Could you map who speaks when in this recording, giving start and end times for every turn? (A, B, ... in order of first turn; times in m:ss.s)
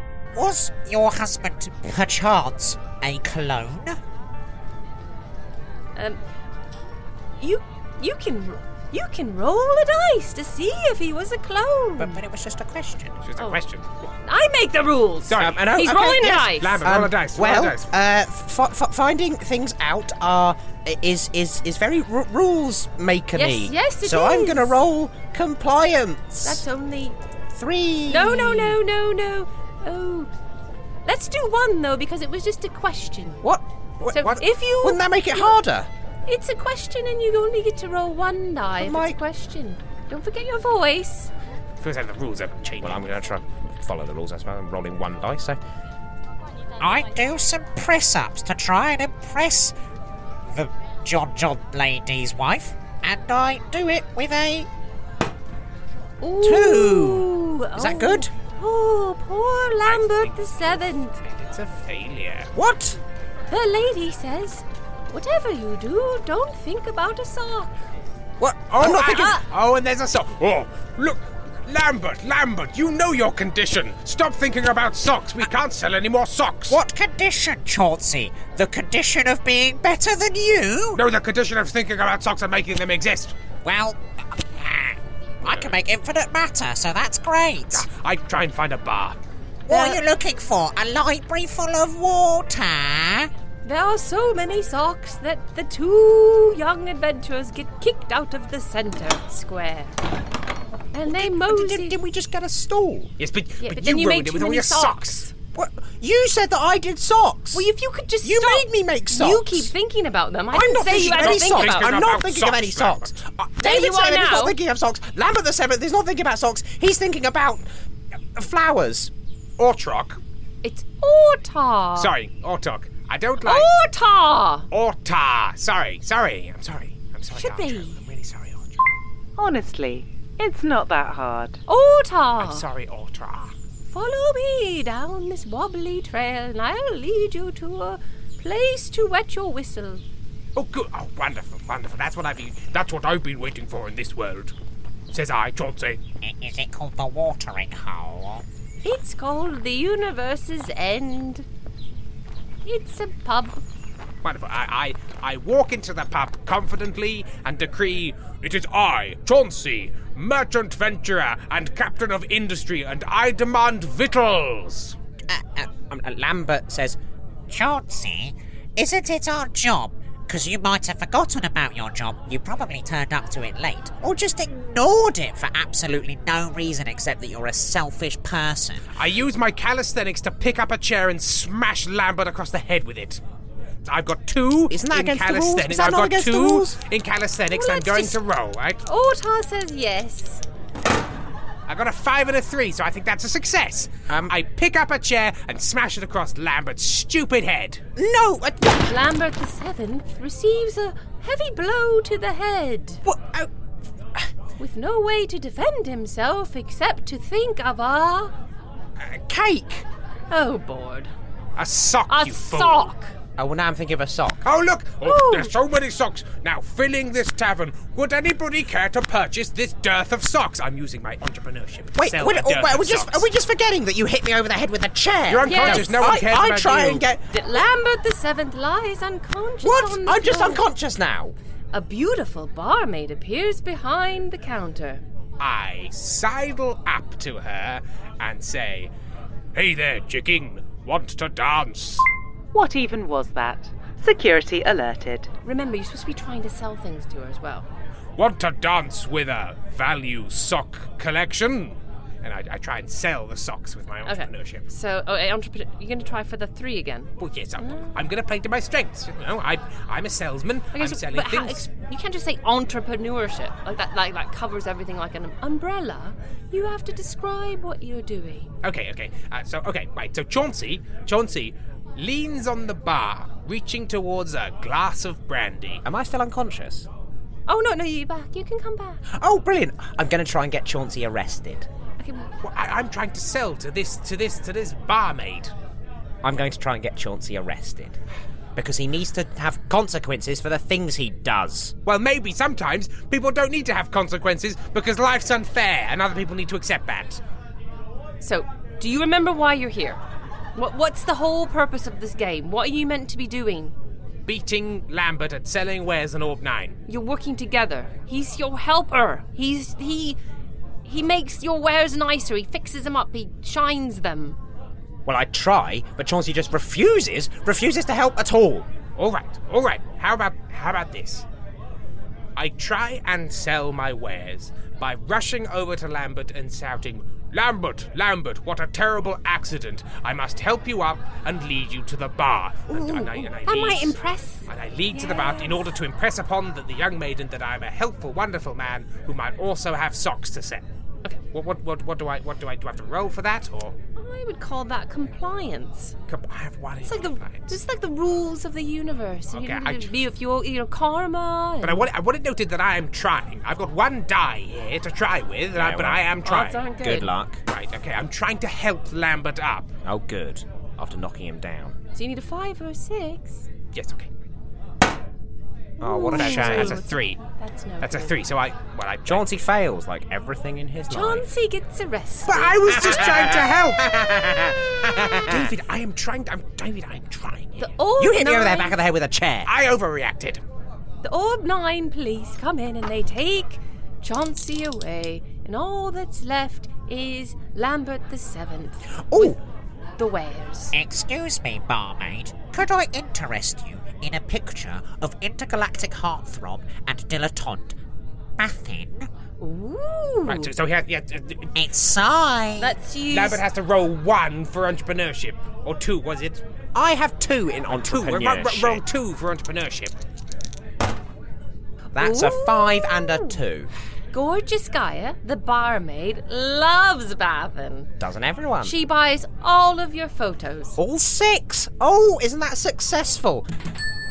0:00.3-0:04.0 A
0:07.4-0:12.2 B
0:12.0-0:13.2 A
0:13.2-0:13.9 C
0:14.2-0:16.8 B
0:15.3-0:15.6 C
0:15.4-0:26.6 D
0:16.6-0:17.9 C
0:23.3-0:24.8 B
0:26.4-0:27.2 B
0:27.5-0:28.8 D
0:28.1-0:30.3 B
0:31.0-0:33.4 B
0:33.4-0:35.9 D
0:34.1-0:35.6 B
0:36.3-0:41.3 B
0:38.8-0:39.2 D
0:41.8-0:43.2 C
0:42.8-0:45.6 D
0:46.8-0:49.7 A
0:50.4-0:54.7 A
0:56.2-1:01.2 B
0:56.4-0:57.2 A
0:57.8-0:58.3 D
0:59.8-1:02.5 C
1:02.5-1:03.0 D
1:03.5-1:07.7 B
1:08.4-1:09.4 D
1:08.7-1:16.8 C
1:08.8-1:09.4 B
1:16.7-1:21.0 A
1:20.9-1:23.4 C
1:23.6-1:27.9 A
1:25.4-1:25.7 C
1:27.7-1:29.2 C
1:29.7-1:33.3 A
1:29.7-1:30.0 B
1:33.6-1:40.0 B
1:40.9-1:42.0 B
1:41.1-1:43.1 D
1:43.2-1:45.2 C
1:43.6-1:45.3 B
1:45.5-1:47.6 D
1:47.5-1:52.0 B
1:48.2-1:49.7 D
1:50.5-1:57.7 D
1:50.9-1:53.5 C
1:53.6-1:54.6 B
1:58.4-1:59.1 D
1:59.6-2:00.2 C
2:00.6-2:02.1 B
2:02.0-2:03.7 C
2:03.4-2:04.7 B
2:04.7-2:08.8 C
2:07.3-2:08.0 B
2:09.4-2:11.6 E
2:11.7-2:12.6 B
2:12.4-2:13.5 C
2:13.9-2:20.0 B
2:20.5-2:24.5 C
2:25.1-2:26.0 C
2:26.2-2:28.4 A
2:28.8-2:31.4 B
2:32.6-2:33.6 B
2:34.2-2:45.0 C
2:45.3-2:45.7 A
2:45.7-2:47.0 D
2:47.5-2:58.8 A
2:58.9-3:03.2 C
3:03.8-3:08.8 C
3:04.7-3:06.8 D
3:07.5-3:08.2 B
3:08.8-3:10.4 B
3:11.7-3:17.8 C
3:18.0-3:18.9 D
3:18.8-3:23.0 B
3:23.0-3:23.5 D
3:24.6-3:28.3 B
3:29.0-3:29.8 D
3:30.3-3:31.1 B
3:31.6-3:32.9 C
3:32.1-3:33.1 B
3:33.4-3:34.4 D
3:34.4-3:43.3 C
3:35.0-3:35.5 B
3:42.0-3:47.2 D
3:45.3-3:47.0 C
3:45.4-3:46.2 B
3:47.3-3:50.6 B
3:49.6-3:51.3 D
3:51.7-3:55.0 B
3:55.4-3:58.9 C
3:59.5-4:02.0 C
4:02.5-4:05.3 E
4:05.4-4:07.7 B
4:08.2-4:14.6 C
4:14.0-4:18.0 B
4:17.2-4:21.6 C
4:20.7-4:28.5 B
4:28.6-4:35.8 C
4:35.8-4:36.8 D
4:37.5-4:39.0 B
4:39.1-4:41.7 D
4:42.0-4:42.3 B
4:42.4-4:45.5 C
4:46.2-4:48.0 D
4:48.6-4:51.7 D
4:51.8-4:57.2 C
4:58.2-5:00.0 B
5:00.5-5:03.7 B
5:04.2-5:06.8 C
5:06.9-5:10.2 B
5:10.8-5:14.4 B
5:15.0-5:18.7 D
5:19.0-5:21.2 C
5:22.4-5:40.6 C
5:32.7-5:35.7 B
5:41.3-5:43.8 C
5:44.0-5:45.9 B
5:46.1-5:47.5 C
5:46.8-5:51.9 B
5:49.3-5:49.9 C
5:51.6-5:56.6 C
5:55.5-5:56.1 D
5:56.2-5:57.1 B
5:56.8-5:57.4 D
5:57.5-5:59.7 C
5:59.8-6:01.8 D
6:01.9-6:03.5 B
6:03.7-6:04.1 C
6:05.8-6:08.1 B
6:05.8-6:06.8 D
6:06.1-6:07.2 C
6:07.8-6:09.3 C
6:09.1-6:11.3 D
6:10.9-6:12.8 B
6:12.3-6:13.9 C
6:12.8-6:15.4 D
6:15.3-6:17.7 C
6:17.6-6:18.8 B
6:18.0-6:19.5 D
6:19.4-6:20.4 C
6:21.0-6:29.4 B
6:30.0-6:30.8 B
6:30.7-6:37.8 A
6:38.4-6:39.1 A
6:39.4-6:40.5 B
6:40.2-6:41.5 C
6:41.5-6:42.7 A
6:42.6-6:43.4 B
6:43.1-6:46.4 C
6:46.7-6:48.8 D
6:47.7-6:49.9 C
6:51.9-6:53.7 D
6:52.0-6:53.4 B
6:54.1-6:57.9 B
6:58.0-6:58.7 D
6:58.6-7:00.8 B
7:00.8-7:03.4 D